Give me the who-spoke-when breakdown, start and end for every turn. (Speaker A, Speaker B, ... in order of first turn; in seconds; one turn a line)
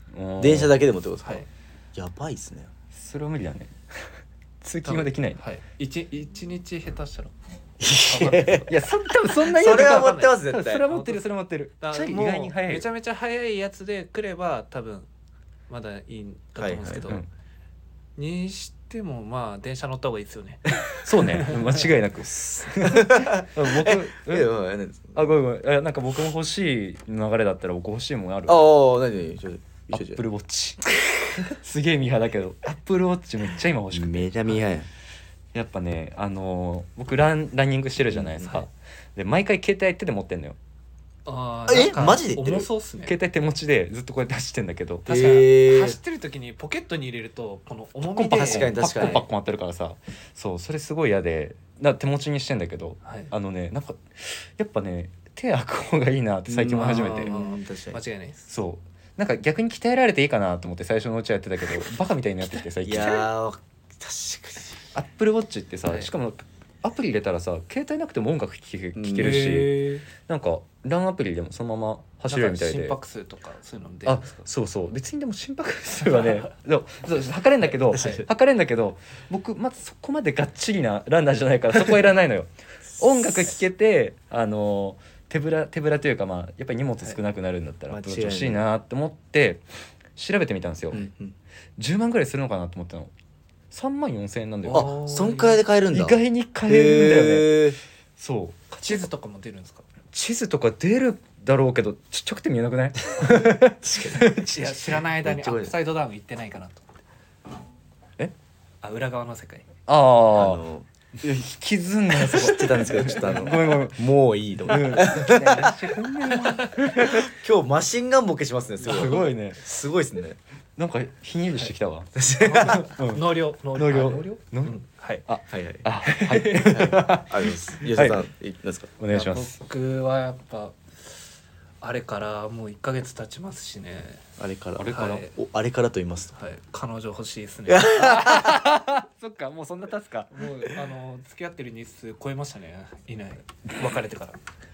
Speaker A: 0.1-0.8
Speaker B: 0.4-2.7
Speaker C: 1.2-1.5
Speaker A: 2.9-3.7
Speaker A: 4.6-5.4
Speaker C: 4.8-7.3
Speaker B: 7.8-8.7
Speaker C: 8.0-8.7
Speaker A: 8.7-12.9
Speaker B: 9.4-10.8
Speaker C: 9.6-11.2
Speaker C: 11.8-15.1
Speaker C: 15.7-17.2
Speaker B: 16.6-17.2
Speaker C: 18.2-21.8
Speaker A: 21.0-24.5
Speaker B: 22.4-25.3
Speaker A: 25.1-28.6
Speaker B: 28.4-30.2
Speaker A: 29.9-34.6
Speaker B: 33.9-34.9
Speaker A: 35.5-40.6
Speaker C: 41.2-43.1
Speaker B: 41.7-42.7
Speaker A: 43.0-45.1
Speaker B: 45.0-46.0
Speaker C: 45.0-49.2
Speaker A: 48.1-57.3
Speaker B: 48.3-49.2
Speaker C: 53.0-53.3
Speaker B: 56.5-58.0
Speaker C: 56.6-58.5
Speaker A: 58.5-63.2
Speaker B: 62.8-64.8
Speaker C: 63.0-63.2
Speaker A: 64.9-73.0
Speaker B: 68.9-69.5
Speaker C: 69.1-70.0
Speaker C: 72.3-74.5
Speaker A: 74.0-89.6
Speaker C: 76.0-76.5
Speaker B: 77.9-78.2
Speaker C: 77.9-78.2
Speaker B: 83.0-83.5
Speaker B: 87.9-88.6
Speaker A: 90.2-91.0
Speaker B: 90.9-91.3
Speaker A: 91.8-93.1
Speaker A: 93.7-94.9
Speaker C: 94.7-95.6
Speaker B: 94.7-97.8
Speaker A: 95.9-97.7
Speaker A: 98.2-99.1
Speaker C: 98.8-99.8
Speaker A: 100.1-104.7
Speaker B: 103.2-104.7
Speaker C: 104.4-107.0
Speaker B: 105.2-105.7
Speaker C: 108.8-109.7
Speaker A: 109.9-110.6
Speaker B: 110.3-110.9
Speaker A: 111.2-114.0
Speaker B: 112.1-115.9
Speaker A: 114.7-117.3
Speaker C: 115.2-115.7
Speaker C: 116.3-116.7
Speaker B: 117.0-120.4
Speaker A: 118.8-119.6
Speaker C: 118.8-119.2
Speaker A: 120.8-124.7
Speaker B: 122.2-122.8
Speaker C: 122.4-125.2
Speaker A: 125.3-128.2
Speaker B: 125.5-125.9
Speaker C: 126.0-126.8
Speaker B: 126.6-128.9
Speaker A: 129.0-129.5
Speaker C: 129.1-130.8
Speaker C: 131.8-134.3
Speaker B: 134.4-136.3
Speaker A: 134.8-135.2
Speaker C: 134.9-135.3
Speaker C: 136.3-138.1
Speaker B: 137.7-138.7
Speaker A: 137.9-140.3
Speaker C: 140.3-144.4